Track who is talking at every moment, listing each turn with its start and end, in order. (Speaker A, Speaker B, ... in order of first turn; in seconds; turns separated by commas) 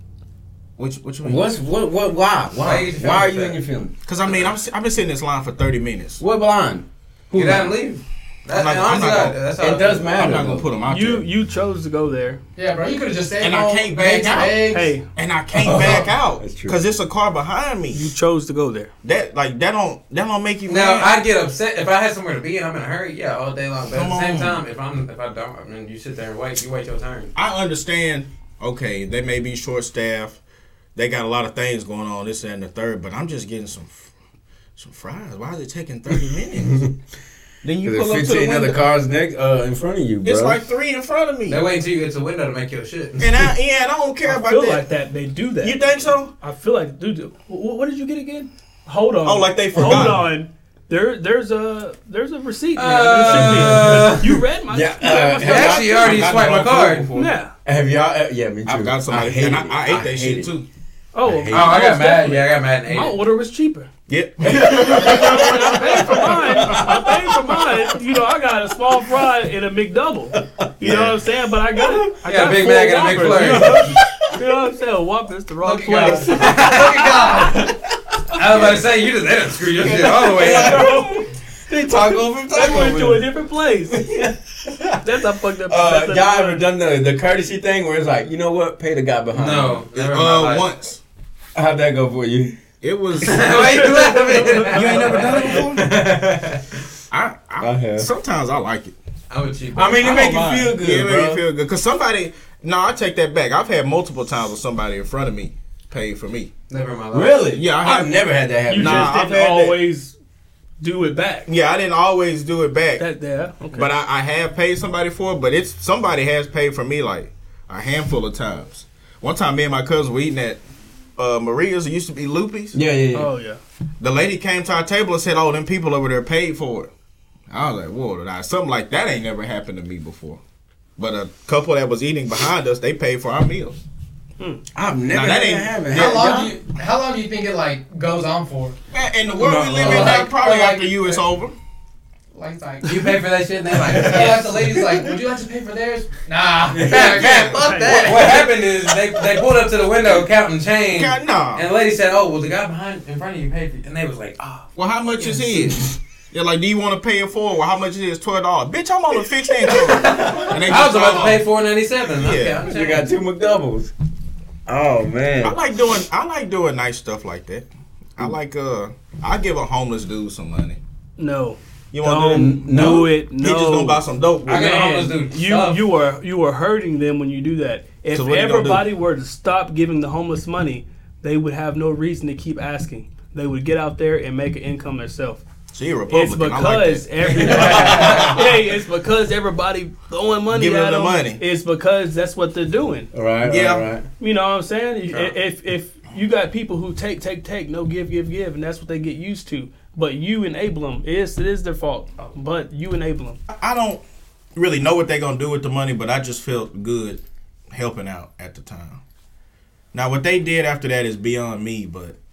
Speaker A: 0.8-1.6, Speaker B: 1.2-3.9, Speaker C: 2.6-3.6, Speaker A: 4.0-6.2, Speaker B: 6.2-7.7, Speaker C: 7.3-10.5, Speaker A: 8.5-9.4, Speaker B: 9.6-10.7, Speaker A: 10.1-11.3, Speaker D: 10.9-12.4, Speaker E: 12.6-15.0, Speaker A: 13.4-18.1, Speaker D: 14.7-15.1, Speaker B: 15.6-16.8, Speaker D: 17.9-18.9, Speaker A: 19.0-21.1, Speaker C: 20.7-27.3, Speaker A: 23.9-24.6, Speaker A: 27.4-30.4, Speaker A: 31.0-34.1, Speaker A: 34.8-36.9, Speaker A: 37.6-38.9, Speaker B: 37.8-40.6, Speaker A: 40.2-41.6, Speaker C: 41.5-43.5, Speaker A: 43.2-44.9, Speaker D: 44.2-45.8, Speaker A: 45.6-46.3, Speaker D: 46.4-56.2, Speaker A: 49.2-50.3, Speaker B: 49.8-50.1, Speaker C: 52.8-54.4, Speaker B: 53.2-54.1, Speaker B: 54.7-56.6, Speaker C: 55.4-57.1, Speaker A: 55.7-57.4, Speaker D: 57.1-57.5, Speaker B: 57.6-60.5, Speaker A: 58.7-60.7, Speaker D: 61.1-63.9, Speaker B: 61.2-61.8, Speaker C: 61.5-63.2, Speaker A: 64.1-67.1, Speaker B: 64.6-67.8, Speaker D: 64.7-76.8, Speaker A: 70.8-71.2, Speaker B: 71.8-72.1, Speaker C: 72.2-74.0, Speaker B: 73.4-74.4, Speaker C: 75.6-77.7, Speaker E: 76.0-77.6, Speaker C: 78.3-81.1, Speaker B: 78.3-78.8, Speaker B: 79.8-83.3, Speaker D: 80.3-81.3, Speaker C: 81.8-82.8, Speaker D: 82.5-84.1, Speaker B: 83.9-85.1, Speaker D: 85.0-86.7, Speaker B: 85.6-89.8, Speaker C: 89.3-90.7, Speaker A: 89.9-91.0, Speaker B: 91.5-92.6, Speaker A: 92.8-93.9, Speaker C: 93.2-96.6, Speaker D: 93.7-95.0, Speaker A: 94.7-95.9, Speaker A: 97.1-99.0, Speaker B: 97.6-98.1, Speaker C: 99.3-100.5, Speaker B: 99.8-101.4, Speaker A: 100.0-106.5, Speaker C: 106.7-107.4, Speaker B: 107.1-109.1, Speaker A: 107.5-109.8, Speaker D: 108.7-110.2, Speaker D: 110.8-111.5, Speaker A: 111.5-113.0, Speaker D: 113.0-113.9, Speaker A: 113.7-120.6, Speaker A: 121.2-122.8, Speaker B: 122.7-123.3, Speaker D: 123.1-123.6, Speaker A: 124.0-126.9, Speaker A: 127.5-130.4, Speaker A: 131.0-133.8, Speaker B: 134.8-136.6, Speaker A: 135.1-136.4, Speaker E: 135.9-138.8, Speaker A: 138.9-141.6, Speaker C: 139.4-140.2, Speaker B: 139.5-140.0, Speaker E: 139.7-141.2, Speaker E: 142.3-143.1, Speaker C: 142.8-145.0, Speaker E: 143.8-148.5, Speaker C: 146.8-154.7, Speaker B: 146.8-147.2, Speaker A: 147.0-147.6, Speaker D: 147.5-148.2, Speaker A: 150.9-151.7, Speaker A: 154.8-161.4, Speaker C: 155.2-155.4, Speaker C: 159.7-163.1, Speaker B: 159.9-160.6, Speaker A: 162.1-162.7, Speaker B: 162.7-163.9, Speaker B: 164.7-165.6, Speaker A: 165.4-167.7, Speaker A: 168.2-170.8, Speaker D: 171.2-185.4, Speaker A: 171.9-174.8, Speaker B: 172.3-173.1, Speaker C: 174.4-175.8, Speaker A: 178.1-178.9, Speaker A: 185.7-188.5, Speaker D: 186.1-193.1, Speaker B: 187.3-188.4, Speaker A: 190.5-191.4, Speaker B: 193.1-194.1, Speaker A: 193.4-193.9, Speaker D: 194.2-203.4, Speaker A: 203.5-204.0, Speaker A: 204.6-207.2, Speaker A: 207.7-209.0, Speaker A: 209.9-212.2